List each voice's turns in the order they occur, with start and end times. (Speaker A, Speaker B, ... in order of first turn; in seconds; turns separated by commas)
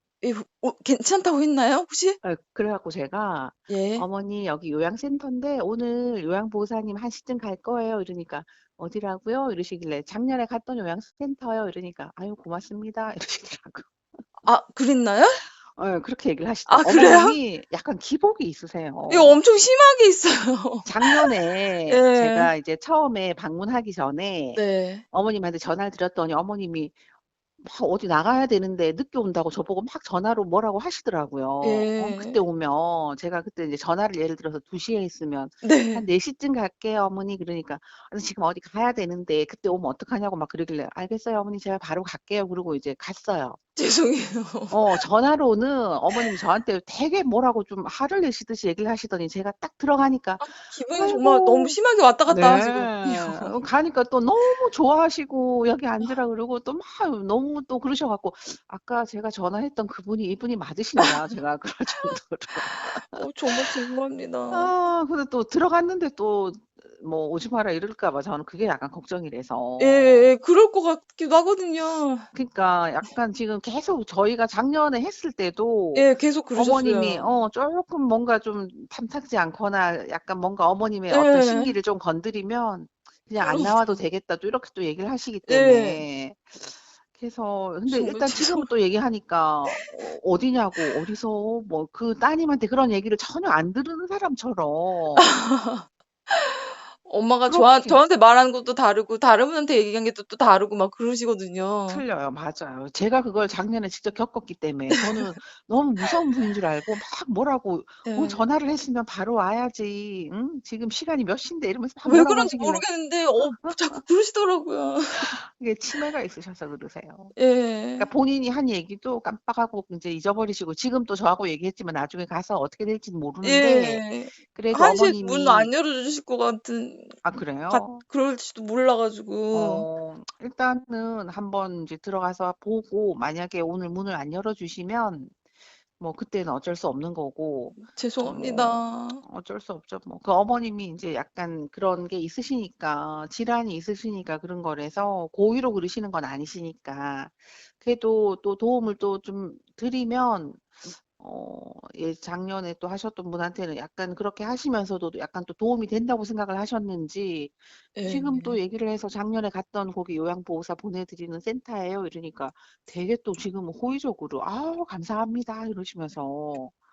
Speaker A: 0.2-2.2, Speaker B: 2.2-14.2, Speaker A: 3.7-4.0, Speaker A: 14.4-15.4, Speaker B: 15.3-19.4, Speaker A: 16.6-17.4, Speaker A: 19.1-22.5, Speaker B: 20.8-27.0, Speaker A: 24.6-25.0, Speaker B: 27.6-43.6, Speaker A: 31.6-32.4, Speaker A: 35.6-36.0, Speaker A: 43.8-45.0, Speaker B: 44.7-51.8, Speaker A: 50.4-53.5, Speaker B: 52.3-63.8, Speaker A: 62.7-64.7, Speaker B: 64.5-70.3, Speaker A: 69.8-72.3, Speaker B: 72.3-95.3, Speaker A: 75.9-77.3, Speaker A: 81.1-81.7, Speaker A: 83.4-84.0, Speaker A: 85.5-86.0, Speaker A: 87.9-88.7, Speaker A: 95.2-102.0, Speaker B: 97.4-98.0, Speaker B: 101.9-112.9, Speaker A: 104.9-105.3, Speaker A: 108.0-108.4, Speaker A: 112.0-115.3, Speaker B: 113.4-114.0, Speaker B: 115.2-117.3, Speaker A: 117.3-118.1, Speaker B: 118.0-125.7, Speaker A: 123.4-127.2, Speaker B: 127.2-128.0, Speaker A: 127.7-129.9, Speaker B: 129.5-135.3, Speaker B: 136.0-166.7, Speaker A: 137.9-139.2, Speaker A: 157.9-158.6